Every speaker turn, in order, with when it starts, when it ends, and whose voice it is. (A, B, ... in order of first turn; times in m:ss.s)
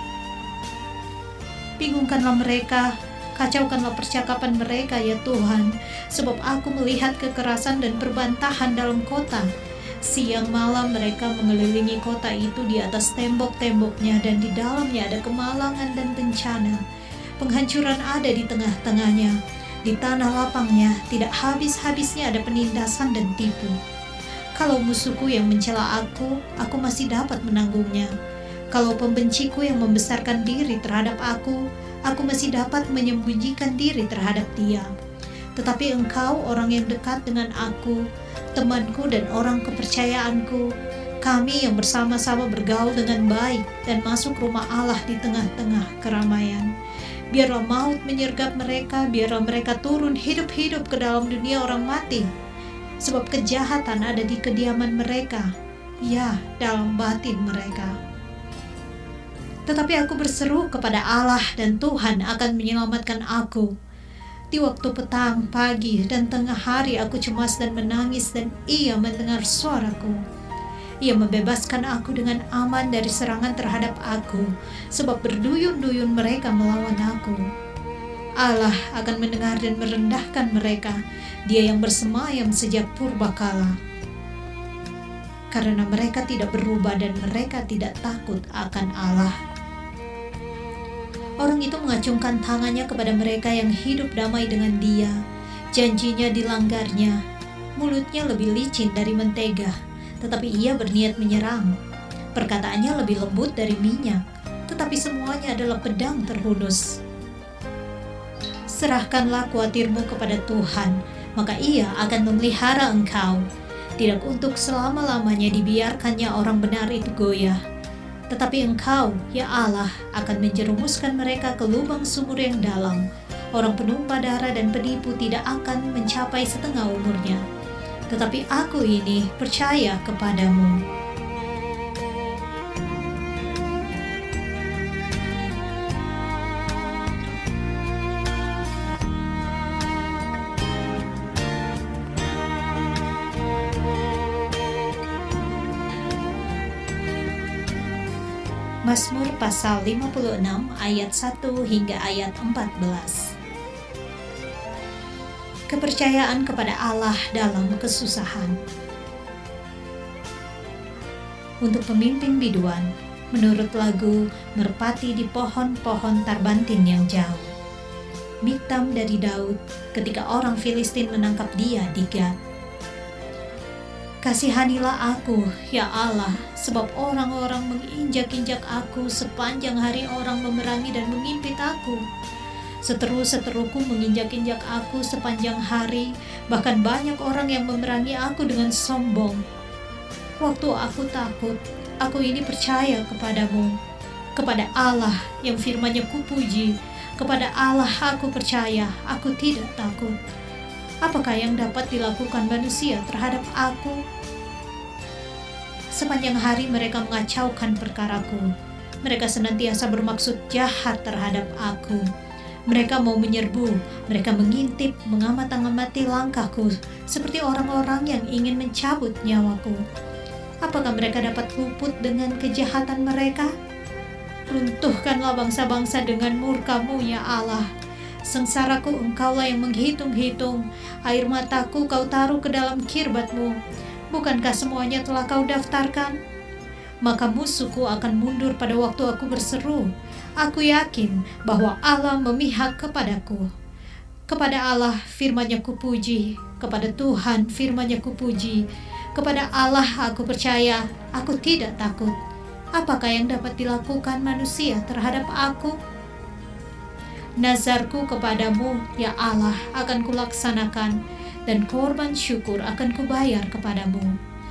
0:01.8-0:09.5 A
0:10.0-0:16.8 A
0:17.4-0:23.8 A
0:24.5-0:28.1 A
0:28.7-0:34.9 A
0:35.6-0:38.0 A
0:38.6-0:40.7 A
0:41.2-0:46.7 A
0:47.3-0:52.3 A
0:53.0-0:55.5 A
0:56.0-0:58.0 A
0:59.7-1:03.7 A
1:04.5-1:10.2 A
1:11.0-1:17.4 A
1:18.4-1:23.8 A
1:25.5-1:29.3 A
1:31.4-1:35.2 A
1:35.7-1:37.2 A
1:37.8-1:41.7 A
1:42.3-1:47.0 A
1:48.7-1:53.4 A
1:54.0-1:57.6 A
1:58.3-2:03.0 A
2:03.5-2:07.4 A
2:08.1-2:10.8 A
2:28.9-2:33.3 A
2:35.7-2:38.6 A
2:41.6-2:47.5 A
2:48.4-2:52.3 A
2:54.2-3:02.0 A
3:02.8-3:09.4 A
3:10.4-3:13.7 A
3:14.4-3:20.2 A
3:21.0-3:24.0 A
3:25.9-3:28.5 A
3:29.0-3:32.0 A
3:32.7-3:39.8 A
3:40.6-3:43.5 A
3:44.5-3:47.7 A
3:48.2-3:53.6 A
3:54.1-3:56.2 A
3:57.0-3:59.9 A
4:00.4-4:03.5 A
4:04.3-4:12.1 A
4:12.7-4:15.8 A
4:17.4-4:20.9 A
4:21.5-4:24.1 A